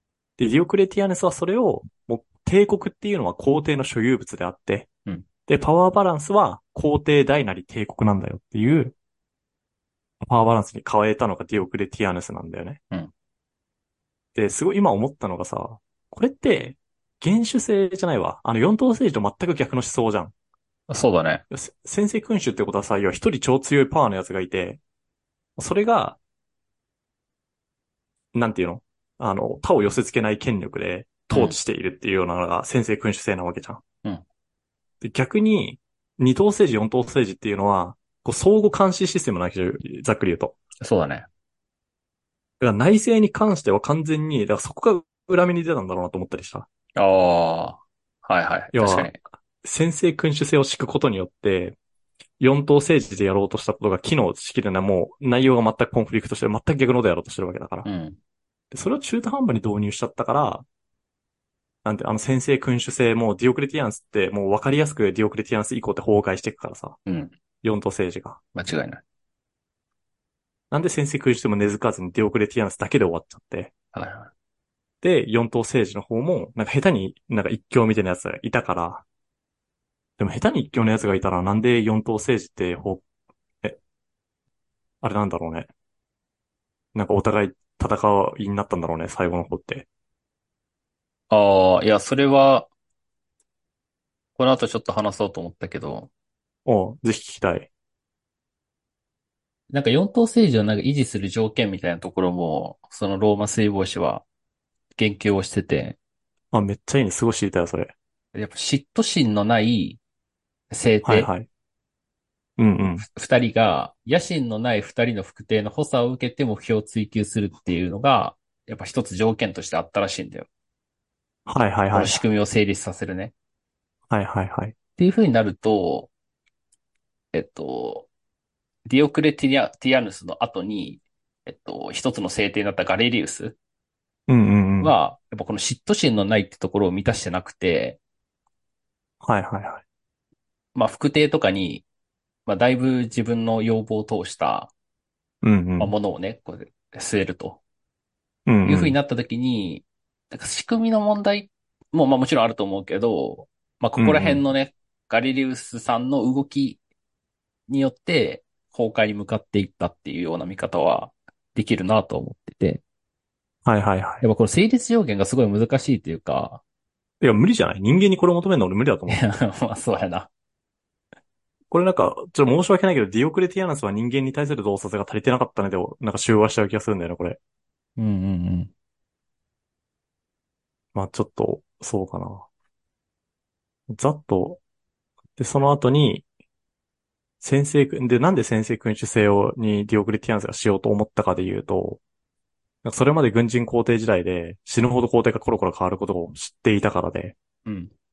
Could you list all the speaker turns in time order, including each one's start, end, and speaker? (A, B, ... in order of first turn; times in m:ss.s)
0:00.4-0:04.9 A
0:05.5-0:08.9 A
0:10.2-0:12.8 A
0:14.4-0:20.3 A
0:20.9-0:21.4 B
0:21.5-0:24.8 A
0:25.6-0:26.2 A
0:28.3-0:33.8 A
0:31.3-0:31.6 B
0:35.0-0:40.6 A
0:40.8-0:41.3 B
0:42.6-0:46.7 A
0:47.0-0:49.2 B
0:48.7-0:51.8 A
0:52.4-0:57.9 A
0:57.8-0:58.2 B
0:58.7-1:00.6 A
1:01.8-1:07.0 A
1:07.1-1:07.3 B
1:07.6-1:08.4 A
1:08.6-1:09.0 B
1:10.7-1:13.7 A
1:13.9-1:14.3 B
1:15.0-1:19.0 A
1:20.2-1:23.0 A
1:25.0-1:25.7 A
1:27.0-1:29.9 A
1:31.3-1:32.7 B
1:34.4-1:36.1 B
1:36.7-1:37.7 A
1:39.7-1:44.2 B
1:45.0-1:46.0 B
1:46.5-1:47.9 A
1:48.4-1:50.0 B
1:50.7-1:51.3 B
1:51.0-1:51.5 A
1:52.6-1:53.0 A
1:53.0-2:00.5 B
2:01.5-2:02.2 A
2:01.9-2:03.3 B
2:04.1-2:04.7 A
2:05.0-2:06.1 B
2:07.3-2:08.1 B
2:08.9-2:13.6 B
2:14.3-2:15.0 A
2:14.8-2:18.0 B
2:19.2-2:19.8 A
2:20.8-2:21.8 B
2:22.5-2:24.7 B
2:25.4-2:25.9 A
2:25.8-2:27.6 B
2:28.5-2:29.0 A
2:28.6-2:36.8 B
2:34.0-2:34.4 A
2:37.7-2:42.8 B
2:43.6-2:44.2 A
2:44.2-2:46.6 B
2:47.2-2:49.2 A
2:49.1-2:50.3 B
2:51.7-2:57.4 A
2:58.0-2:58.7 B
3:00.9-3:02.5 A
3:03.9-3:04.6 A
3:05.4-3:06.2 A
3:07.4-3:12.0 A
3:12.8-3:17.4 A
3:17.6-3:17.9 B